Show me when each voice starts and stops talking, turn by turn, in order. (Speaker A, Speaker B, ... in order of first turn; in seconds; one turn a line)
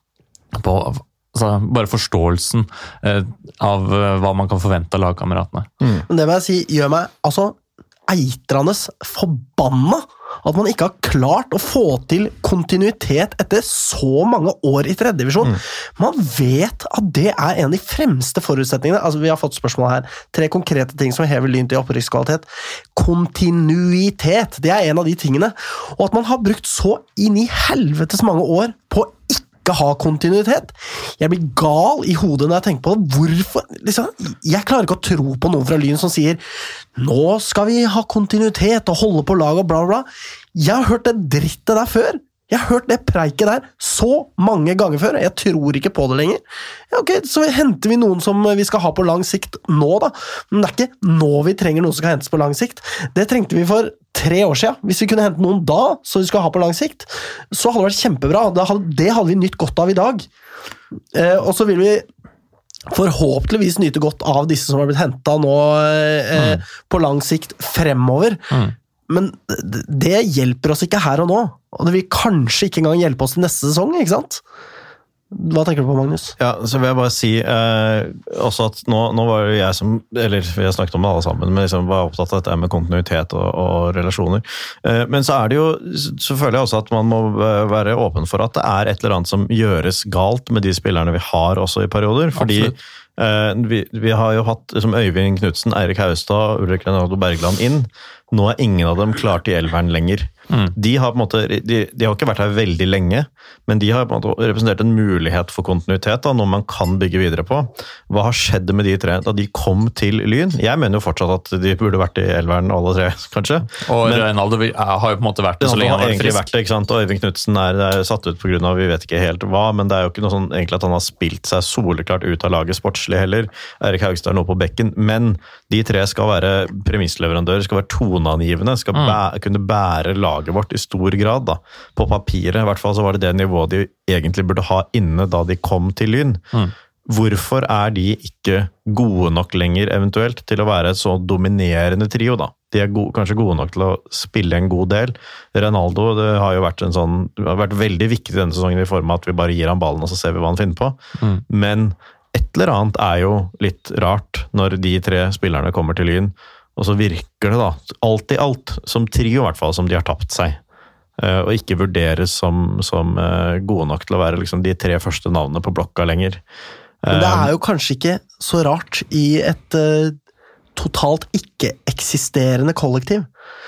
Speaker A: 0.5-5.7
Speaker B: 6.1-36.4
Speaker B: 37.0-60.3
Speaker B: 61.1-62.0
Speaker B: 62.9-68.4
Speaker A: 66.4-66.6
Speaker B: 69.1-74.4
Speaker B: 75.3-76.4
Speaker C: 76.4-114.3
Speaker A: 92.3-92.7
Speaker A: 113.8-116.5
Speaker C: 115.6-136.4
Speaker A: 128.9-129.2
Speaker C: 137.1-151.0
Speaker C: 151.5-160.6
Speaker C: 161.2-166.4
Speaker C: 167.0-167.5
Speaker B: 167.1-170.2
Speaker B: 170.8-173.3